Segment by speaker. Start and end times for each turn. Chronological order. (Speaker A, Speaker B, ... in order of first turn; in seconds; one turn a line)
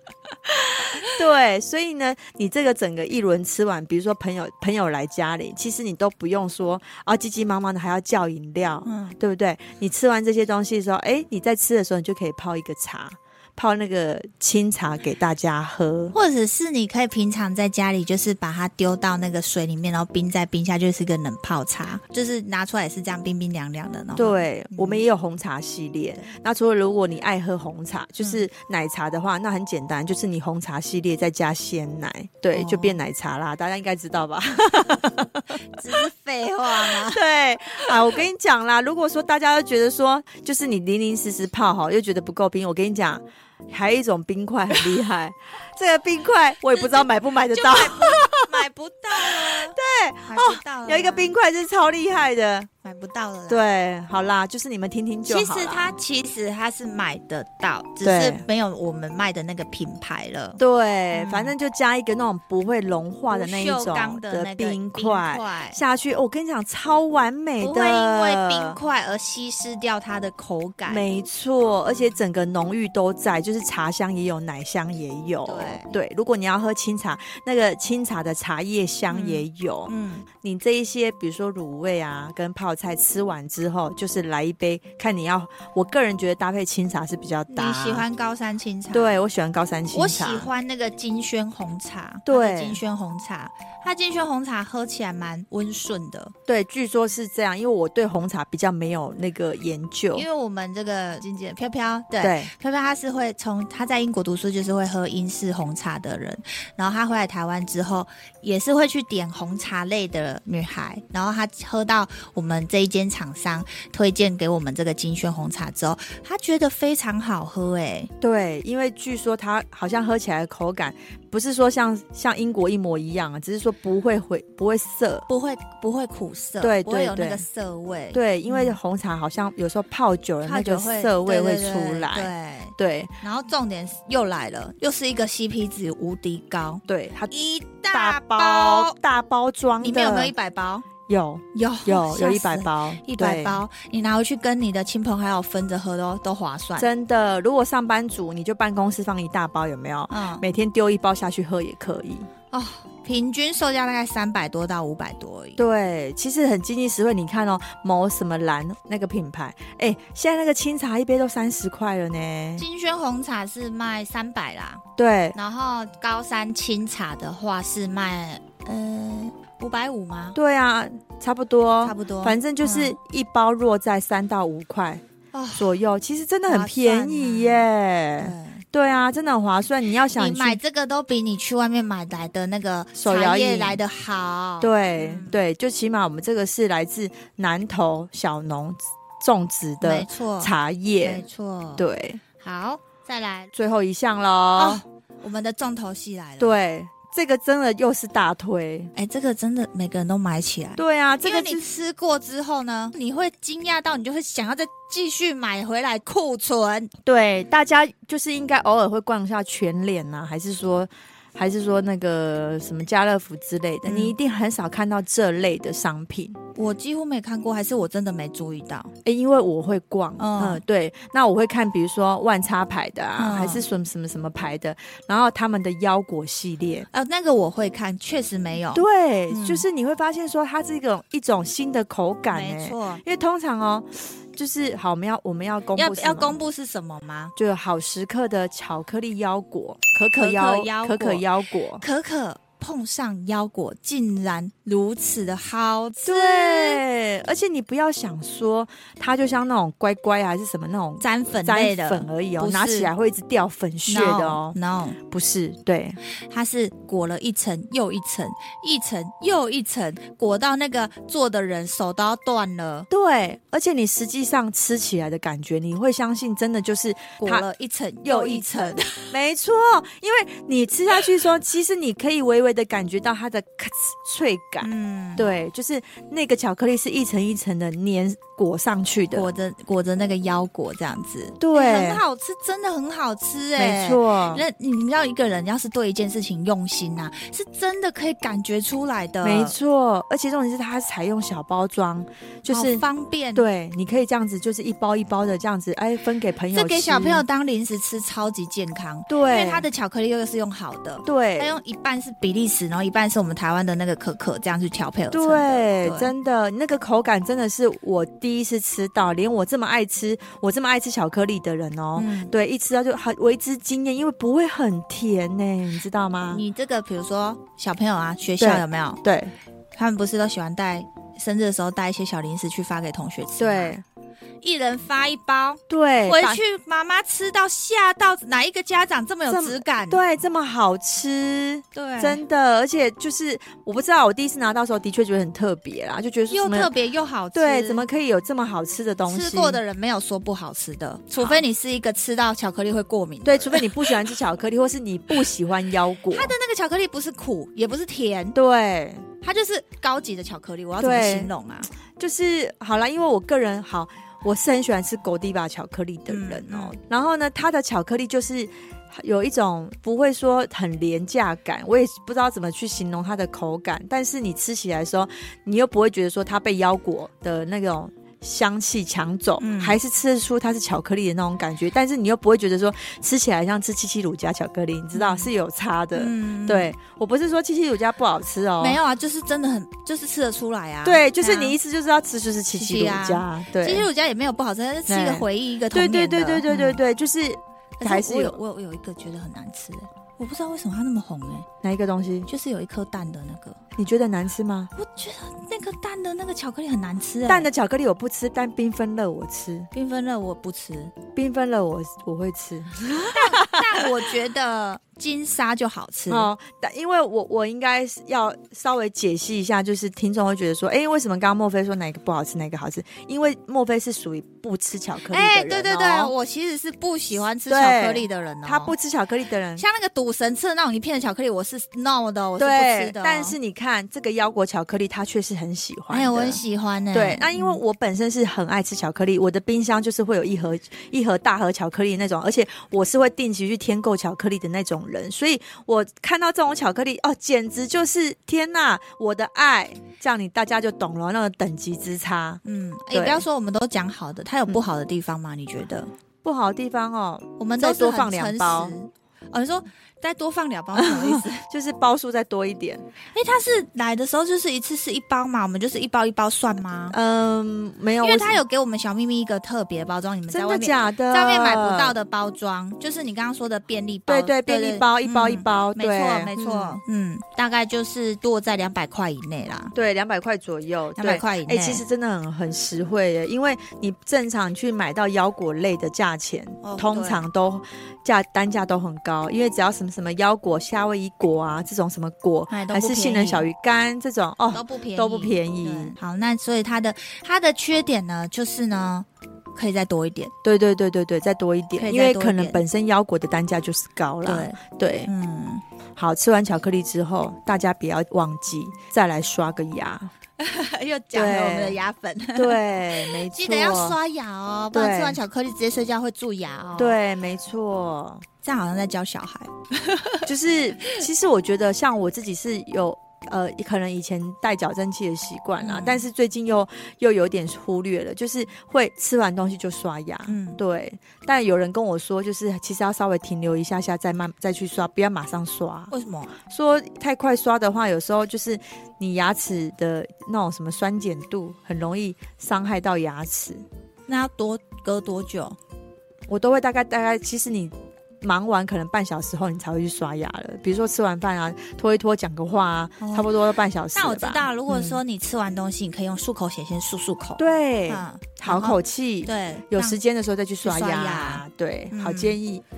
Speaker A: 0.5-16.1
Speaker B: 8.9-9.2
Speaker B: 16.1-25.0
Speaker A: 24.2-36.0
Speaker B: 32.5-33.0
Speaker B: 35.6-37.2
Speaker A: 36.7-48.6
Speaker B: 46.7-51.3
Speaker A: 49.2-52.7
Speaker B: 52.8-53.6
Speaker A: 53.5-55.9
Speaker B: 55.3-60.6
Speaker A: 58.0-58.4
Speaker A: 60.6-68.8
Speaker B: 61.1-61.5
Speaker B: 63.3-65.8
Speaker B: 67.6-71.0
Speaker A: 70.9-88.0
Speaker B: 75.5-75.9
Speaker B: 79.1-80.2
Speaker B: 87.5-89.2
Speaker A: 88.9-90.5
Speaker B: 89.9-96.3
Speaker A: 92.3-92.8
Speaker A: 96.5-100.2
Speaker B: 100.1-118.1
Speaker A: 102.2-102.5
Speaker A: 118.2-125.3
Speaker B: 125.3-128.8
Speaker A: 126.6-127.4
Speaker A: 128.1-133.1
Speaker B: 130.4-138.9
Speaker A: 136.9-137.3
Speaker A: 137.9-140.3
Speaker B: 139.8-140.9
Speaker A: 141.1-143.6
Speaker B: 141.5-146.9
Speaker A: 146.8-152.3
Speaker B: 150.1-150.4
Speaker B: 152.5-155.6
Speaker A: 155.6-162.7
Speaker B: 162.6-164.8
Speaker A: 165.0-165.4
Speaker B: 165.3-170.4
Speaker A: 170.3-175.0
Speaker B: 171.8-172.9
Speaker B: 175.3-175.8
Speaker A: 175.6-180.6
Speaker B: 176.5-177.7
Speaker B: 178.2-178.7
Speaker B: 180.2-185.4
Speaker A: 182.9-183.8
Speaker A: 184.6-191.2
Speaker B: 189.8-191.9
Speaker A: 191.8-192.2
Speaker B: 192.4-193.5
Speaker A: 193.5-194.8
Speaker B: 194.6-196.6
Speaker A: 196.4-198.9
Speaker B: 198.9-206.9
Speaker A: 200.8-201.7
Speaker A: 207.1-216.4
Speaker B: 213.8-214.2
Speaker B: 216.6-218.9
Speaker A: 219.1-226.9
Speaker B: 220.2-220.6
Speaker B: 223.2-223.7
Speaker B: 226.9-229.6
Speaker A: 228.7-236.4
Speaker B: 232.3-233.0
Speaker B: 235.8-237.3
Speaker A: 237.4-241.8
Speaker B: 240.1-241.2
Speaker B: 241.8-246.8
Speaker A: 246.0-254.6
Speaker B: 251.0-252.9
Speaker B: 253.9-255.0
Speaker A: 255.1-256.0
Speaker B: 256.3-262.9
Speaker A: 262.9-267.5
Speaker B: 267.2-269.1
Speaker A: 268.1-279.3
Speaker B: 274.6-275.3
Speaker B: 279.1-289.5
Speaker A: 281.4-282.0
Speaker A: 283.6-284.4
Speaker A: 289.2-292.8
Speaker B: 292.5-293.4
Speaker A: 293.4-297.3
Speaker B: 296.5-306.1
Speaker A: 299.1-299.7
Speaker A: 301.1-301.6
Speaker A: 305.1-316.4
Speaker B: 312.0-312.3
Speaker B: 316.3-319.0
Speaker A: 318.4-319.3
Speaker B: 319.8-323.8
Speaker A: 323.4-323.8
Speaker B: 324.4-330.0
Speaker A: 325.7-326.4
Speaker A: 329.3-336.7
Speaker B: 331.7-332.2
Speaker B: 336.3-337.8
Speaker A: 337.3-339.6
Speaker B: 339.1-343.7
Speaker A: 341.2-341.4
Speaker A: 343.2-346.3
Speaker B: 346.1-348.4
Speaker A: 348.3-349.1
Speaker B: 349.2-351.7
Speaker A: 350.8-351.3
Speaker A: 351.9-378.8
Speaker B: 356.1-356.8
Speaker B: 369.4-369.8
Speaker B: 374.9-375.3
Speaker B: 375.9-376.7
Speaker B: 378.6-381.6
Speaker A: 380.9-383.9
Speaker B: 382.5-386.8
Speaker A: 384.9-388.4
Speaker B: 387.8-391.5
Speaker A: 391.6-392.3
Speaker B: 392.3-393.6
Speaker A: 393.8-394.7
Speaker B: 394.8-397.5
Speaker A: 397.3-399.7
Speaker B: 399.7-400.9
Speaker A: 401.1-404.0
Speaker B: 403.1-406.3
Speaker A: 406.1-416.1
Speaker B: 415.1-418.7
Speaker A: 417.5-419.6
Speaker B: 419.6-423.4
Speaker A: 422.4-426.4
Speaker B: 425.9-427.6
Speaker A: 426.9-442.4
Speaker B: 442.4-445.9
Speaker A: 442.9-443.2
Speaker A: 446.2-448.8
Speaker B: 447.4-451.4
Speaker A: 450.8-452.9
Speaker B: 453.1-457.0
Speaker A: 456.9-458.4
Speaker B: 458.0-469.7
Speaker A: 460.3-462.0
Speaker A: 464.1-466.8
Speaker A: 469.8-485.9
Speaker B: 471.0-471.8
Speaker B: 476.6-477.3
Speaker B: 482.5-483.5
Speaker B: 484.5-490.3
Speaker A: 490.4-495.1
Speaker B: 491.8-492.6
Speaker B: 494.2-495.6
Speaker A: 496.0-500.1
Speaker B: 500.4-507.0
Speaker A: 501.1-501.8
Speaker A: 502.4-504.0
Speaker A: 504.7-505.2
Speaker A: 506.8-508.2
Speaker B: 508.4-510.3
Speaker A: 510.2-525.9
Speaker B: 515.6-516.0
Speaker B: 520.3-520.6
Speaker B: 525.9-526.3
Speaker A: 526.5-533.6
Speaker B: 534.1-535.6
Speaker A: 536.3-545.0
Speaker B: 543.0-543.3
Speaker B: 543.9-550.0
Speaker A: 547.4-552.6
Speaker B: 550.6-552.4